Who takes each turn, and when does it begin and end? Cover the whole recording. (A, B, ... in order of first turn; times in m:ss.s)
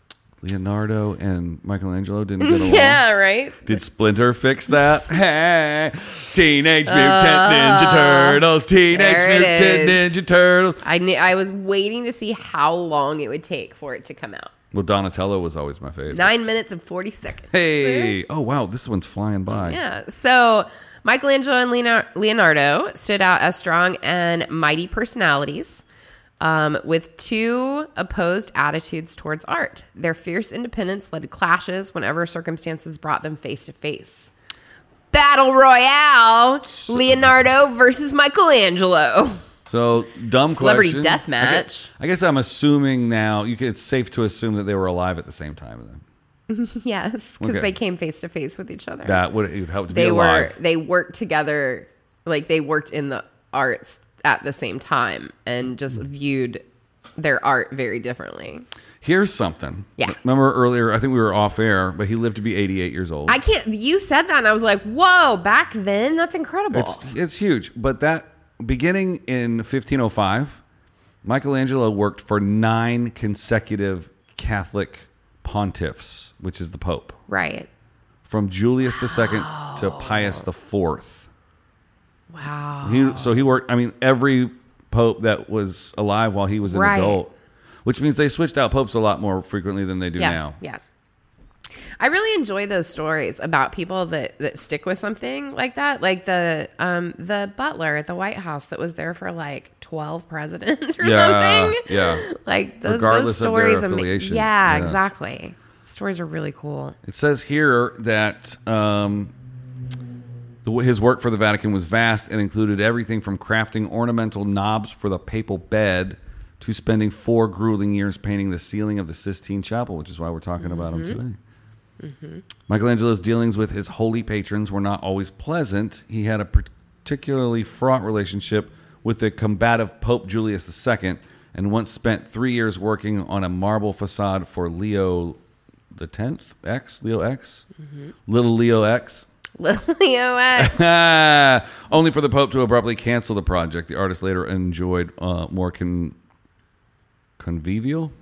0:00.4-0:03.0 A
0:02.4-0:03.8 B
0:03.6-0:10.8 A
0:06.9-0:10.2 B
0:10.8-0:14.5 B
0:14.7-0:16.3 A
0:16.1-0:18.2 B
0:17.5-0:19.8 A
0:19.5-0:25.8 B
0:26.4-0:34.3 B
0:35.1-0:39.4 B
0:39.7-0:46.0 A
0:40.5-0:41.9 B
0:46.5-0:49.2 B
0:47.4-0:47.7 A
0:49.0-0:50.6 A
0:49.9-0:56.6 B
0:57.2-0:58.7 B
0:59.0-1:03.4 A
1:03.3-1:07.0 B
1:06.7-1:10.6 A
1:11.2-1:17.2 A
1:17.3-1:17.7 B
1:18.3-1:21.3 A
1:18.9-1:20.5 B
1:22.3-1:23.4 B
1:22.8-1:27.3 A
1:26.7-1:27.2 B
1:27.8-1:30.6 A
1:30.2-1:30.8 B
1:32.0-1:47.0 B
1:41.0-1:42.2 A
1:42.8-1:45.0 A
1:47.0-1:49.3 A
1:50.6-2:01.4 A
2:00.6-2:01.2 B
2:02.0-2:02.4 B
2:02.6-2:15.4 A
2:15.9-2:17.6 A
2:18.3-2:19.3 A
2:19.6-2:20.8 B
2:20.6-2:26.2 A
2:27.4-2:28.1 A